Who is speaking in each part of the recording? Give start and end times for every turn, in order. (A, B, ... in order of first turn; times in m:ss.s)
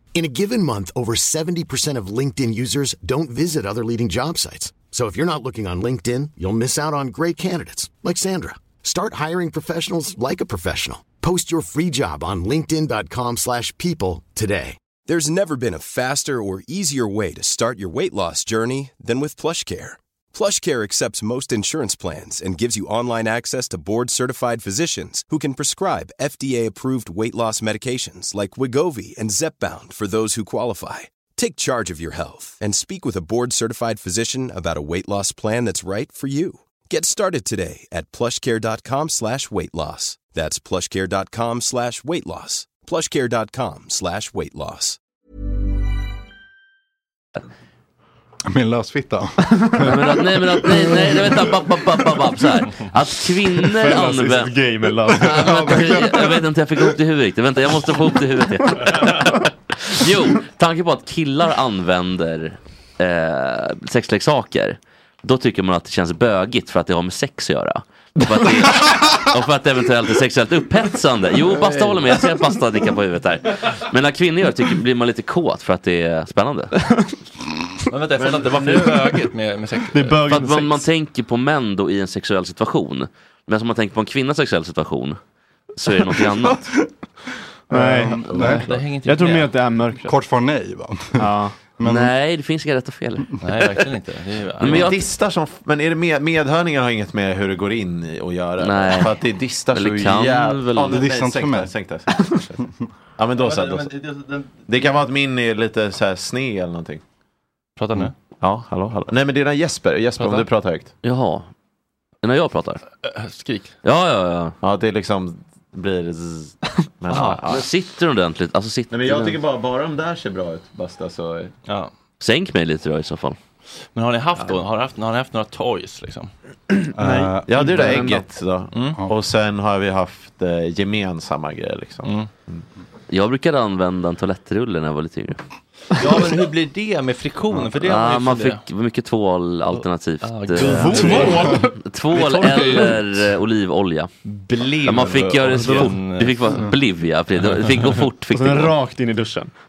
0:00.1-0:14.8 A
0:15.0-0:45.0 B
0:48.5-0:51.3 C
0:49.8-1:16.7 D
0:53.7-0:56.4 E
0:55.4-0:56.0 C
1:17.9-1:20.2 F
1:18.2-1:18.9 G
1:19.9-1:20.8 E
1:20.3-1:25.2 D
1:25.8-1:26.7 D
1:27.7-1:28.7 C
1:27.7-1:30.2 E
1:28.4-1:29.5 F
1:30.0-1:32.1 C
1:31.2-1:31.6 E
1:31.8-1:33.3 D
1:33.4-1:34.9 F
1:34.6-1:35.0 D
1:34.6-1:42.6 G
1:38.6-1:39.2 D
1:39.7-1:41.0 D
1:40.9-1:41.7 C
1:43.2-1:43.9 G
1:43.3-1:44.8 F
1:44.7-1:47.0 G
1:47.8-1:48.2 F
1:48.4-1:50.9 G
1:50.2-1:50.5 F
1:51.0-1:51.5 D
1:52.2-1:52.8 D
1:53.0-1:53.8 F
1:53.8-1:54.6 D
1:54.6-1:57.7 G
1:57.1-1:57.4 F
1:57.5-1:59.3 D
1:58.9-2:01.5 G
2:01.7-2:01.9 F
2:02.2-2:03.4 D
2:03.9-2:06.3 F
2:07.0-2:08.0 C
2:07.0-2:08.2 E
2:07.5-2:12.6 G
2:08.7-2:09.0 F
2:12.0-2:12.3 F
2:13.1-2:15.4 D
2:16.0-2:18.6 F
2:17.8-2:24.1 D
2:19.8-2:23.3 F
2:20.6-2:21.7 E
2:24.3-2:26.6 F
2:24.8-2:28.8 D
2:28.3-2:29.5 E